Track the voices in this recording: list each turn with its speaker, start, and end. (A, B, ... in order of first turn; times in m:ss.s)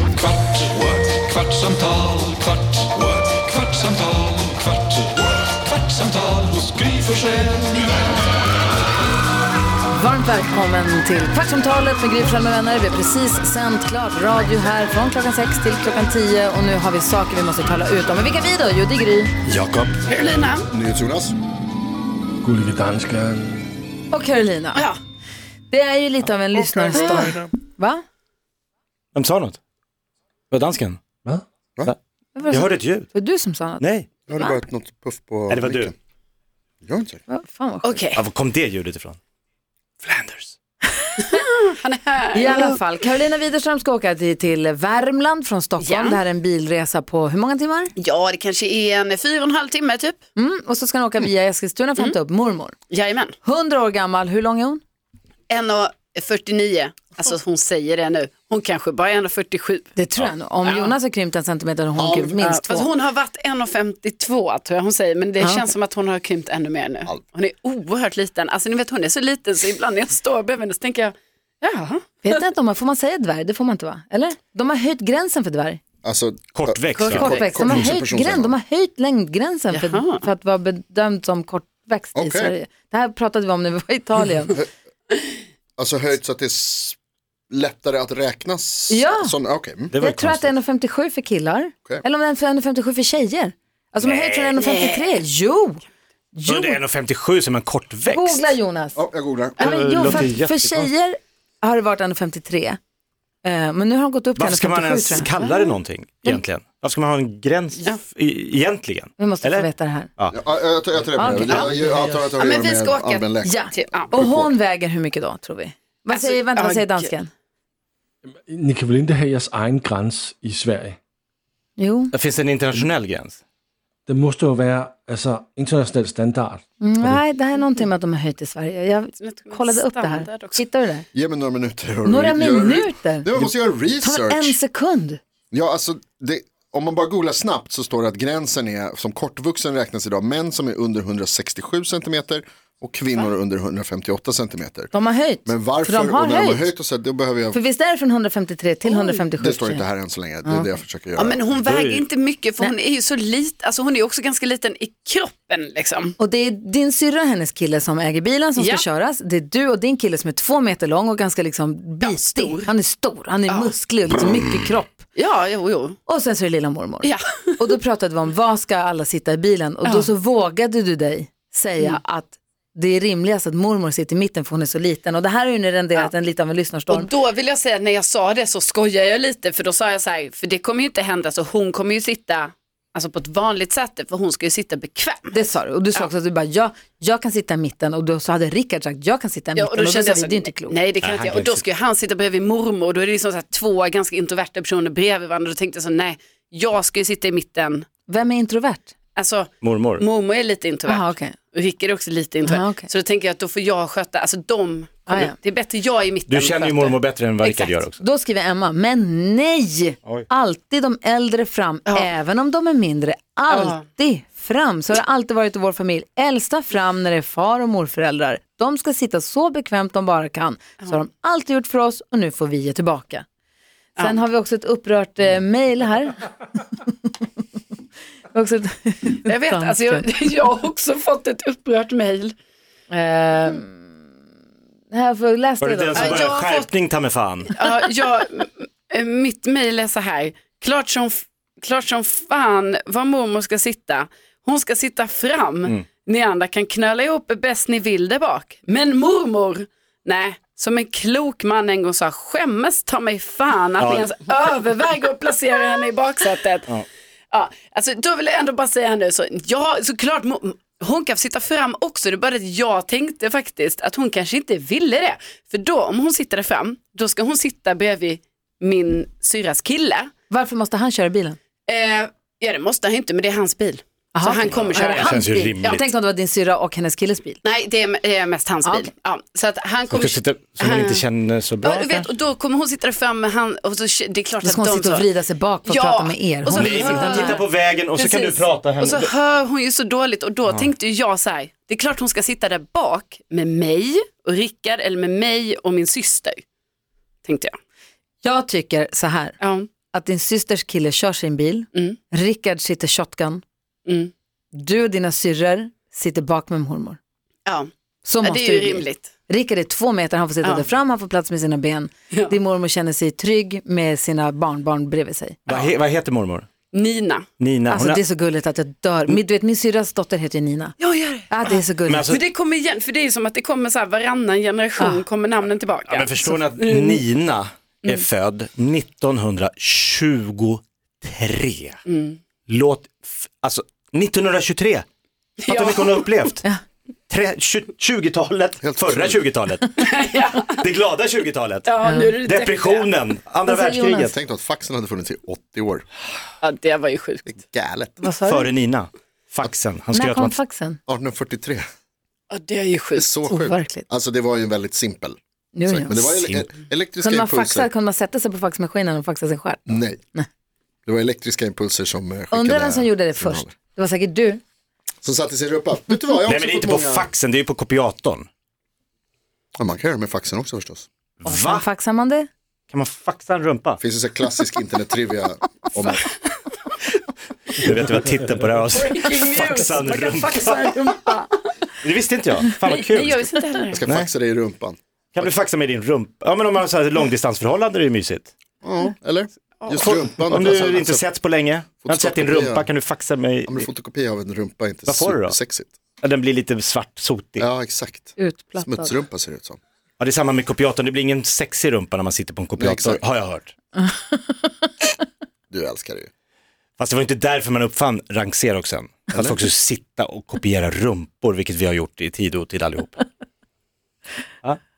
0:00.2-0:05.1 A
0:05.7-0:07.7 A
0:09.9-0:19.3 B
0:19.5-0:19.8 C
0:20.0-0:20.7 D
0:20.7-0:21.3 E
0:22.4-0:23.7 C
0:24.1-0:24.9 B
0:25.7-0:28.0 B
0:26.5-0:27.5 E
0:27.0-0:27.3 D
0:29.1-0:29.6 F
0:30.5-0:31.0 F
0:32.3-0:34.6 B
0:32.5-0:33.1 F
0:33.8-0:34.1 F
0:34.3-0:35.9 E
0:35.5-0:35.9 F
0:36.8-0:37.2 E
0:37.3-0:38.1 B
0:37.8-0:38.2 D
0:38.1-0:39.2 F
0:40.0-0:40.5 F
0:41.0-0:41.4 B
0:41.2-0:42.7 D
0:42.3-0:47.9 B
0:45.8-0:46.2 D
0:48.0-0:50.2 D
0:50.4-0:52.8 B
0:52.9-0:53.3 D
0:53.4-0:54.8 B
0:55.5-0:59.9 D
1:00.0-1:02.9 B
1:00.6-1:00.9 D
1:02.0-1:02.4 E
1:02.4-1:12.2 D
1:05.4-1:05.6 B
1:12.2-1:15.8 B
1:16.0-1:18.6 E
1:16.5-1:17.3 F
1:16.9-1:24.6 B
1:17.1-1:17.8 D
1:19.7-1:20.2 D
1:22.1-1:22.5 E
1:25.8-1:27.0 E
1:27.5-1:29.9 E
1:28.9-1:29.3 B
1:29.9-1:30.5 F
1:30.0-1:36.8 B
1:34.0-1:34.5 F
1:34.6-1:35.1 D
1:36.4-1:38.5 F
1:38.1-1:39.0 B
1:38.9-1:39.7 E
1:39.6-1:42.8 B
1:39.6-1:40.9 F
1:43.4-1:45.3 B
1:44.4-1:50.4 F
1:45.3-1:45.8 D
1:49.2-1:50.1 B
1:50.3-1:53.6 E
1:51.1-1:51.8 B
1:51.2-1:52.3 C
1:52.4-1:54.2 D
1:53.4-1:57.3 B
1:54.1-1:54.5 E
1:56.1-1:57.1 D
1:58.5-2:01.0 C
2:01.8-2:02.1 B
2:02.1-2:03.4 F
2:04.1-2:07.2 C
2:06.8-2:11.0 B
2:09.2-2:10.6 D
2:11.1-2:14.6 E
2:12.0-2:15.2 B
2:15.5-2:24.9 E
2:24.9-2:26.7 B
2:25.4-2:27.6 E
2:27.5-2:29.8 B
2:28.8-2:29.2 D
2:29.4-2:31.4 E
2:30.4-2:30.7 B
2:31.2-2:36.1 D
2:31.6-2:32.0 F
2:36.2-2:45.1 B
2:38.6-2:38.8 D
2:42.0-2:42.7 D
2:45.1-2:46.0 D
2:46.1-2:57.1 B
2:47.0-2:47.6 D
2:49.8-2:50.1 D
2:56.9-3:05.3 D
3:05.3-3:10.8 B
3:09.6-3:17.8 D
3:11.0-3:11.6 F
3:18.1-3:18.9 B
3:19.2-3:27.8 D
3:19.6-3:20.0 F
3:20.9-3:21.4 B
3:22.4-3:22.9 B
3:25.1-3:25.3 B
3:26.3-3:28.0 F
3:28.0-3:43.2 B
3:33.5-3:33.8 D
3:44.0-3:46.2 B
3:48.3-3:50.0 B
3:49.2-3:52.3 D
3:52.9-3:53.8 B
3:54.9-3:56.3 B
3:55.6-3:57.5 F
3:55.9-3:56.7 D
3:57.5-4:16.7 D
4:13.8-4:14.1 F
4:17.3-4:30.1 D
4:30.3-4:31.4 B
4:31.7-4:35.8 D
4:34.1-4:37.4 B
4:34.5-4:35.8 F
4:37.4-4:41.0 D
4:38.6-4:38.9 B
4:39.9-4:42.1 F
4:41.6-4:45.1 D
4:44.4-4:47.4 B
4:45.6-4:56.4 D
4:46.5-4:49.1 F
4:57.2-4:57.6 D
4:58.2-4:59.4 B
4:59.4-4:59.7 D
4:59.9-5:03.4 B
5:03.8-5:04.1 D
5:04.5-5:07.0 B
5:08.0-5:15.4 B
5:08.2-5:09.1 D
5:15.5-5:16.5 F
5:16.7-5:17.3 D
5:17.4-5:18.0 F
5:17.7-5:20.8 B
5:20.8-5:21.6 D
5:21.3-5:22.2 B
5:21.8-5:22.2 F
5:22.1-5:27.0 D
5:24.8-5:25.0 B
5:25.8-5:31.8 F
5:31.9-5:32.2 D
5:32.5-5:34.8 F
5:35.4-5:36.1 D
5:35.5-5:36.4 F
5:37.1-5:39.8 F
5:38.6-5:39.3 E
5:39.8-5:40.6 D
5:40.5-5:44.2 F
5:41.6-5:42.9 D
5:41.8-5:42.1 B
5:43.4-5:44.1 B
5:44.1-5:45.8 E
5:46.4-5:47.4 D
5:47.3-5:48.0 E
5:48.0-5:48.5 B
5:48.2-5:50.3 F
5:49.9-5:50.8 B
5:50.9-5:51.6 E
5:52.3-5:53.1 D
5:53.0-5:57.7 E
5:53.3-5:53.8 B
5:55.5-6:00.3 B
5:59.7-6:00.0 E
6:00.8-6:03.5 E
6:02.3-6:04.4 B
6:05.0-6:07.1 E
6:06.2-6:08.3 F
6:09.6-6:10.9 E
6:11.2-6:11.6 F
6:11.2-6:12.3 B
6:12.7-6:13.8 F
6:13.8-6:16.1 E
6:17.5-6:20.8 F
6:18.7-6:21.1 D
6:19.7-6:21.3 B
6:21.8-6:24.1 F
6:22.6-6:23.8 D
6:23.7-6:25.3 E
6:25.1-6:28.3 F
6:28.6-6:31.0 E
6:29.6-6:29.9 D
6:29.8-6:33.7 F
6:31.8-6:32.7 E
6:33.5-6:35.7 E
6:34.8-6:35.4 F
6:36.0-6:37.4 F
6:37.4-6:39.6 E
6:38.2-6:38.9 B
6:40.0-6:43.5 F
6:42.6-6:43.0 E
6:43.8-6:44.7 B
6:45.5-6:46.1 E
6:46.8-6:53.0 F